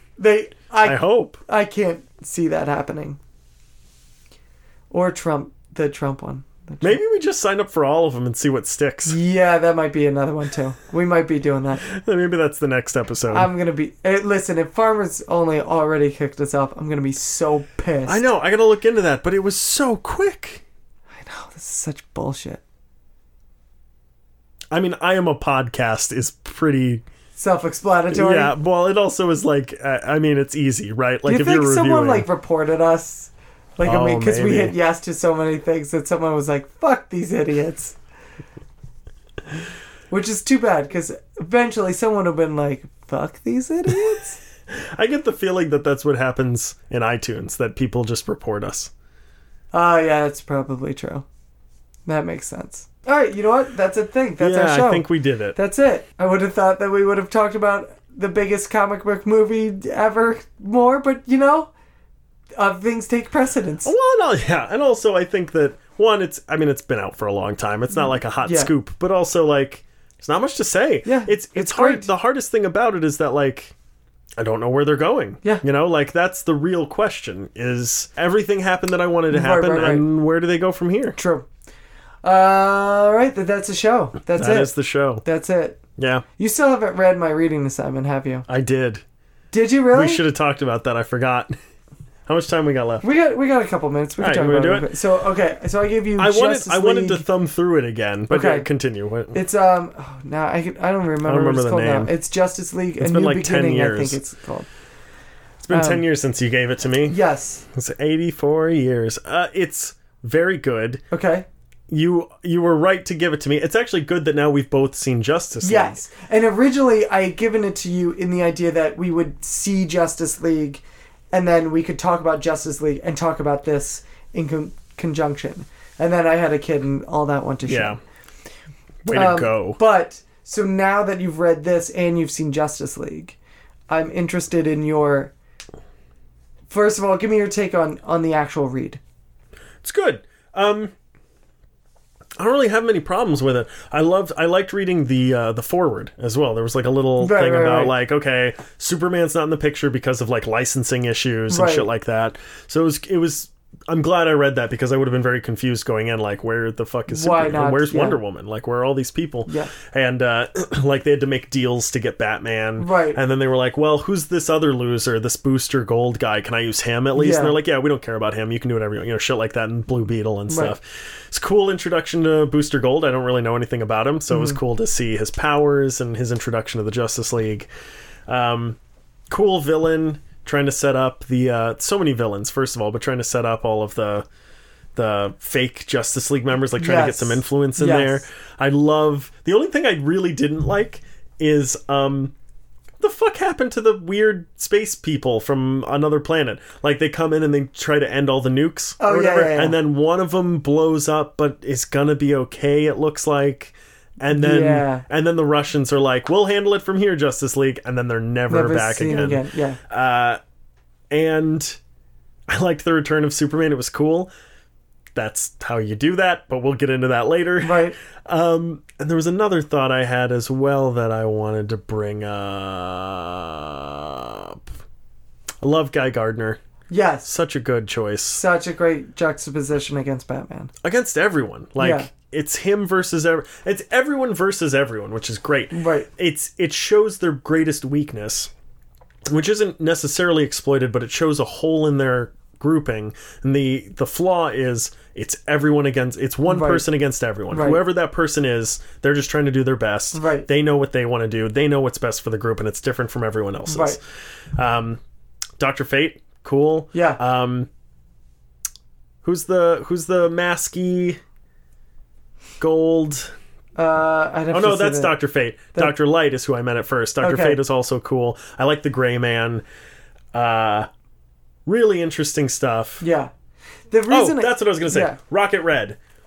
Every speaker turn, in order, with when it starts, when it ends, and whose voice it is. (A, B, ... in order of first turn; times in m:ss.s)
0:00.2-0:03.2 A
0:00.8-0:01.4 B
0:04.9-0:07.0 A
0:06.8-0:09.2 B
0:09.1-0:11.8 A
0:11.9-0:13.5 B
0:13.3-0:18.2 A
0:18.1-0:20.6 B
0:21.2-0:22.6 A
0:24.7-0:27.0 B
0:27.4-0:28.5 A
0:28.1-0:32.3 B
0:31.3-0:38.0 A
0:33.8-0:34.8 B
0:40.1-0:44.4 A
0:44.7-0:48.9 B
0:49.7-0:51.3 A
0:52.1-1:01.7 A
0:54.4-0:55.6 B
1:02.6-1:03.9 A
1:03.8-1:13.7 B
1:08.4-1:08.7 A
1:11.0-1:12.1 A
1:14.4-1:21.2 B
1:19.3-1:20.1 A
1:21.2-1:21.5 A
1:22.2-1:24.7 A
1:24.4-1:25.2 B
1:25.2-1:25.8 A
1:26.0-1:26.2 B
1:26.4-1:28.5 A
1:28.5-1:29.0 B
1:29.5-1:30.2 A
1:29.9-1:31.6 B
1:32.3-1:33.0 B
1:33.0-1:37.3 A
1:34.2-1:34.9 B
1:36.2-1:39.4 B
1:38.3-1:38.7 A
1:39.3-1:44.7 A
1:41.2-1:42.1 B
1:43.0-1:44.2 B
1:45.6-1:47.2 B
1:45.7-1:46.1 A
1:47.1-1:47.6 A
1:47.7-1:51.0 B
1:51.1-1:51.5 A
1:51.9-1:56.0 B
1:55.6-2:08.0 A
2:07.7-2:08.0 B
2:09.0-2:09.8 B
2:09.1-2:13.4 A
2:13.9-2:15.3 A
2:16.7-2:19.0 A
2:19.8-2:20.9 B
2:22.4-2:57.7 B
2:27.2-2:27.9 A
2:31.5-2:31.9 A
2:37.1-2:38.2 A
2:39.5-2:39.7 A
2:42.8-2:43.2 A
2:47.2-2:47.6 A
2:50.5-2:50.7 A
2:54.3-2:54.6 A
2:58.3-2:58.8 B
2:59.3-3:04.3 B
3:05.0-3:12.3 B
3:06.8-3:08.2 A
3:13.0-3:30.4 B
3:19.0-3:19.8 A
3:24.3-3:25.0 A
3:28.5-3:29.8 A
3:31.1-3:31.8 B
3:32.5-3:34.3 B
3:35.2-3:44.7 B
3:37.6-3:38.0 A
3:45.6-3:46.6 B
3:46.9-3:47.3 A
3:47.2-3:48.4 B
3:48.3-3:50.7 A
3:50.8-3:58.5 B
3:51.8-3:52.1 A
3:55.7-3:56.1 A
3:59.3-4:14.0 B
4:06.5-4:06.9 A
4:07.5-4:07.8 A
4:10.1-4:10.5 A
4:13.7-4:14.0 A
4:14.6-4:15.0 B
4:15.6-4:17.7 B
4:16.9-4:17.2 A
4:19.2-4:21.2 B
4:22.6-4:23.3 B
4:23.8-4:25.2 A
4:24.5-4:29.6 B
4:27.2-4:27.6 A
4:30.3-4:30.9 B
4:31.7-4:33.0 B
4:33.0-4:33.3 A
4:33.9-4:35.2 A
4:34.1-4:36.0 B